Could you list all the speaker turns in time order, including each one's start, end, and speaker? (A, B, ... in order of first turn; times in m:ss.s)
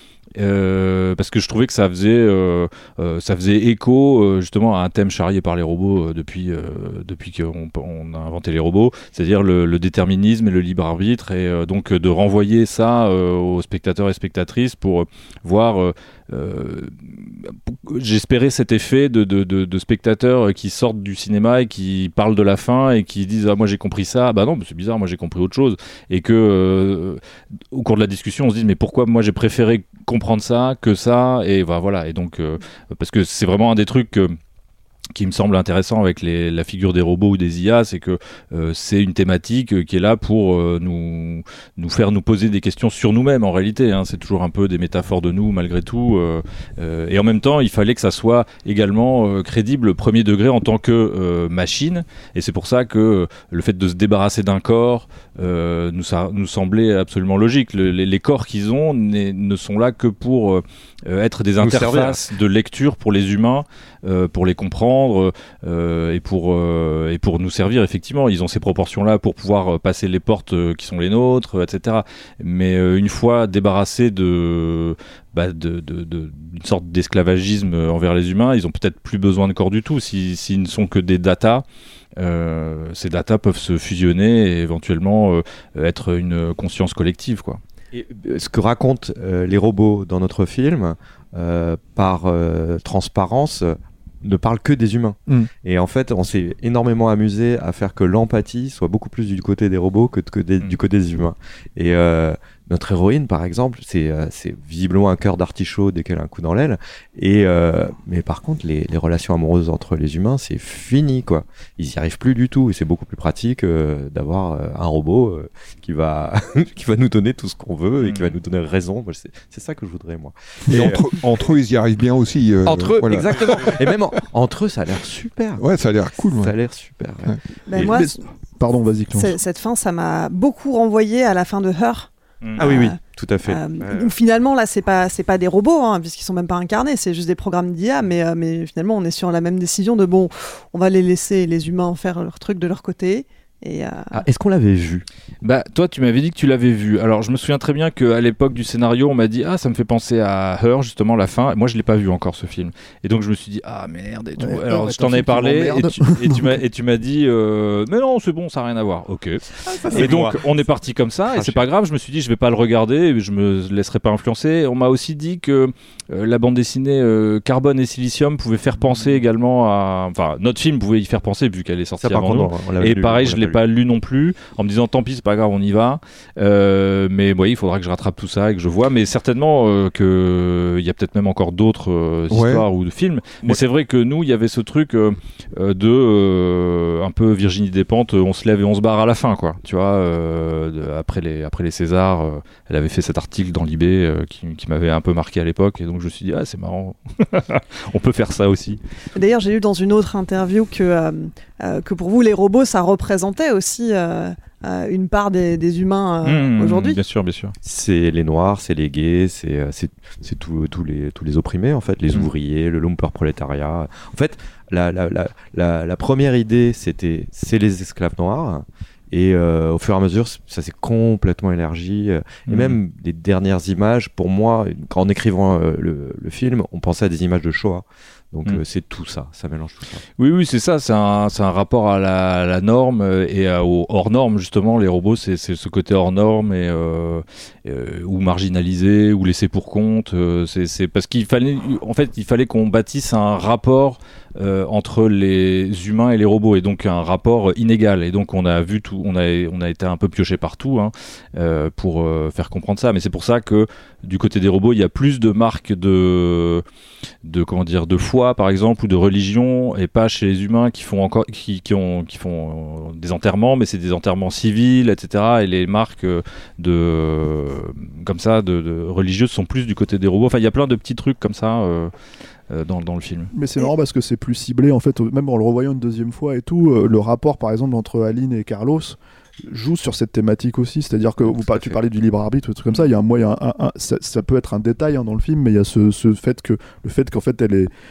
0:00.4-0:27.2 A
0:27.7-0:34.4 A
0:35.1-1:21.6 A
1:01.6-1:02.3 B
1:22.2-1:27.6 A
1:27.9-2:01.5 B
1:58.0-1:58.4 A
2:00.7-2:04.0 C
2:02.7-2:05.6 B
2:05.6-2:06.6 C
2:06.2-2:07.9 B
2:07.7-2:08.2 D
2:07.8-2:09.3 E
2:09.1-2:24.1 D
2:12.6-2:14.1 B
2:24.1-2:25.1 B
2:25.4-3:18.8 A
2:34.4-2:36.6 E
2:39.7-2:40.4 B
2:41.3-2:41.6 B
2:52.0-2:53.6 B
3:02.3-3:02.7 C
3:19.2-3:27.0 D
3:26.2-3:27.6 A
3:27.6-3:50.0 B
3:42.5-3:42.8 A
3:50.2-4:16.6 A
4:17.2-4:31.9 A
4:32.5-4:33.3 A
4:33.3-4:47.7 E
4:41.3-4:41.8 B